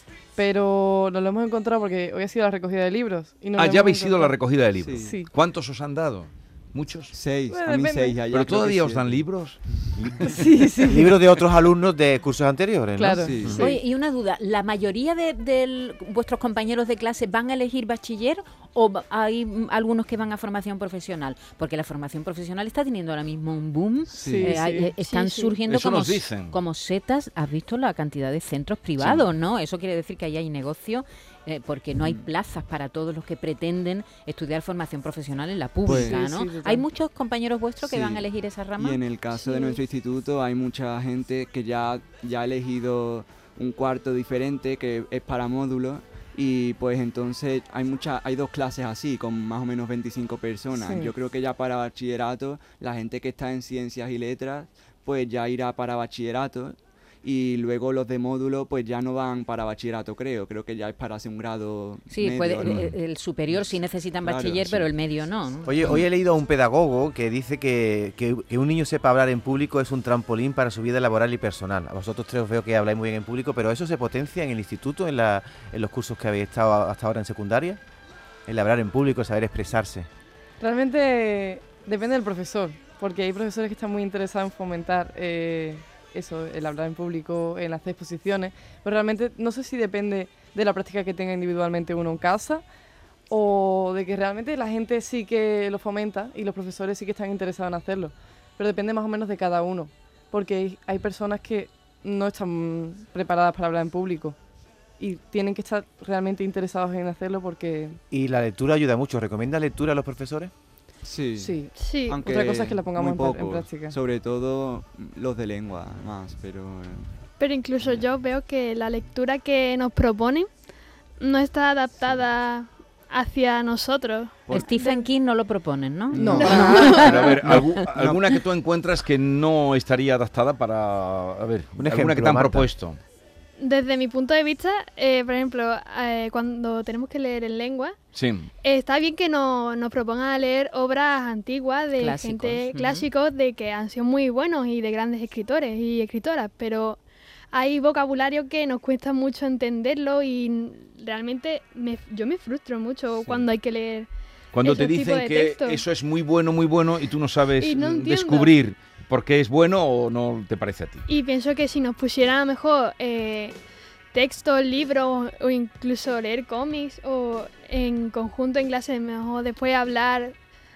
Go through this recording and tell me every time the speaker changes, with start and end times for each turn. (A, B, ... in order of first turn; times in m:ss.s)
0:00.4-0:04.4 A
0:03.6-0:07.2 B
0:04.8-0:05.2 C
0:05.0-0:05.3 A
0:07.1-0:09.9 C
0:07.5-0:08.2 A
0:08.3-0:10.3 B
0:10.2-0:11.2 A
0:10.9-0:13.7 D
0:13.0-0:13.8 A
0:13.1-0:13.7 C
0:13.5-0:39.8 E
0:24.1-0:24.9 A
0:24.1-0:24.6 C
0:25.0-0:25.6 F
0:25.7-0:26.6 B
0:29.0-0:29.3 B
0:32.0-0:32.2 C
0:35.8-0:36.2 C
0:35.9-0:36.8 A
0:37.8-1:03.0 C
0:50.7-0:51.1 A
1:02.1-1:05.8 E
1:02.6-1:02.9 B
1:03.5-1:04.9 C
1:05.6-1:17.8 D
1:18.5-1:20.1 D
1:20.6-1:32.6 A
1:33.3-1:44.4 A
1:45.0-1:48.0 A
1:48.1-1:50.5 D
1:51.0-1:57.2 C
1:51.4-1:54.0 A
1:51.7-1:52.2 F
1:57.4-2:00.5 F
2:01.2-2:05.1 F
2:04.5-2:07.6 E
2:06.1-2:08.4 C
2:06.2-2:06.9 A
2:06.4-2:07.3 F
2:06.9-2:13.0 B
2:11.8-2:12.7 D
2:13.6-2:18.0 F
2:18.1-2:18.5 B
2:18.6-2:27.0 F
2:22.0-2:23.1 E
2:27.5-2:35.8 F
2:33.2-2:33.5 C
2:34.5-2:41.0 B
2:37.6-2:38.6 F
2:41.1-2:43.6 F
2:44.1-2:50.4 F